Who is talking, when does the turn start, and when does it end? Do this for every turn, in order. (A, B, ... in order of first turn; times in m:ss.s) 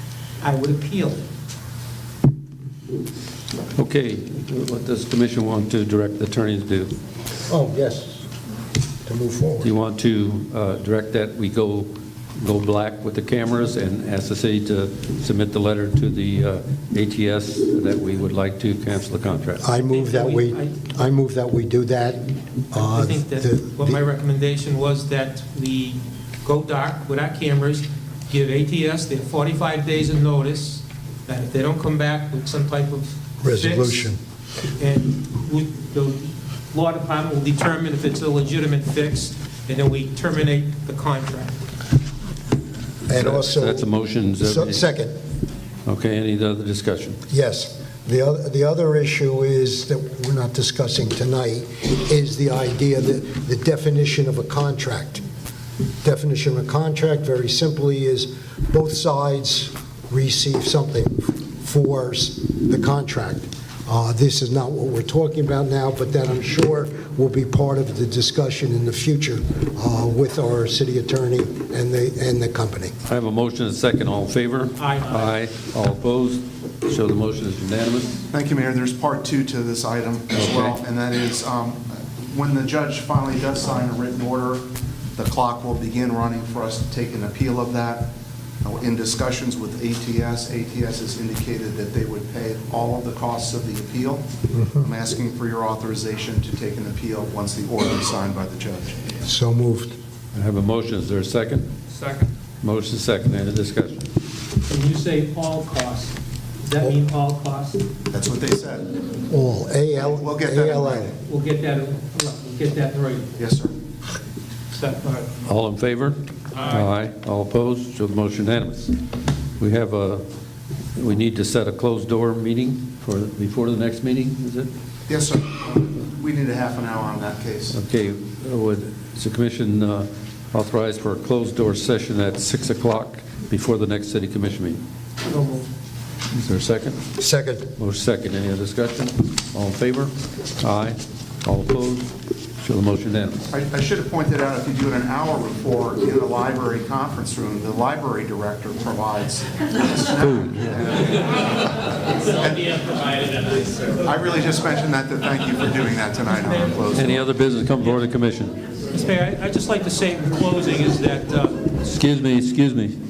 0:00.4-0:01.2 A
0:03.8-0:06.9 B
0:07.5-0:08.2 C
0:09.0-0:09.7 C
0:09.6-0:19.6 B
0:19.6-0:24.0 C
0:19.7-0:20.8 A
0:22.8-0:34.1 A
0:33.4-0:34.2 C
0:34.8-0:41.6 A
0:43.1-0:43.9 C
0:43.1-0:44.8 B
0:44.4-0:45.1 C
0:45.8-0:47.2 B
0:47.3-0:55.2 C
0:56.0-1:12.9 C
1:13.0-1:18.2 B
1:14.8-1:15.4 A
1:18.3-1:24.6 D
1:20.3-1:20.8 B
1:25.2-1:34.3 D
1:34.5-1:34.8 C
1:34.8-1:39.0 D
1:39.2-1:40.0 C
1:40.3-1:41.7 B
1:42.0-1:42.3 A
1:42.6-1:44.1 B
1:44.6-1:47.8 A
1:48.1-1:48.8 D
1:49.3-1:51.1 C
1:50.1-1:51.1 D
1:51.2-1:53.3 A
1:53.4-1:53.7 D
1:54.7-1:55.3 A
1:55.4-1:58.9 B
1:56.5-1:56.9 A
1:59.6-2:00.2 B
2:01.0-2:04.7 B
2:05.1-2:07.8 D
2:07.7-2:14.8 B
2:15.3-2:15.7 A
2:16.3-2:17.0 B
2:17.2-2:17.7 C
2:17.8-2:22.1 B
2:22.6-2:23.5 B
2:23.5-2:37.2 D
2:30.2-2:30.8 B
2:36.3-2:36.8 A
2:36.9-2:38.6 B
2:38.9-2:41.7 A
2:41.8-2:43.0 B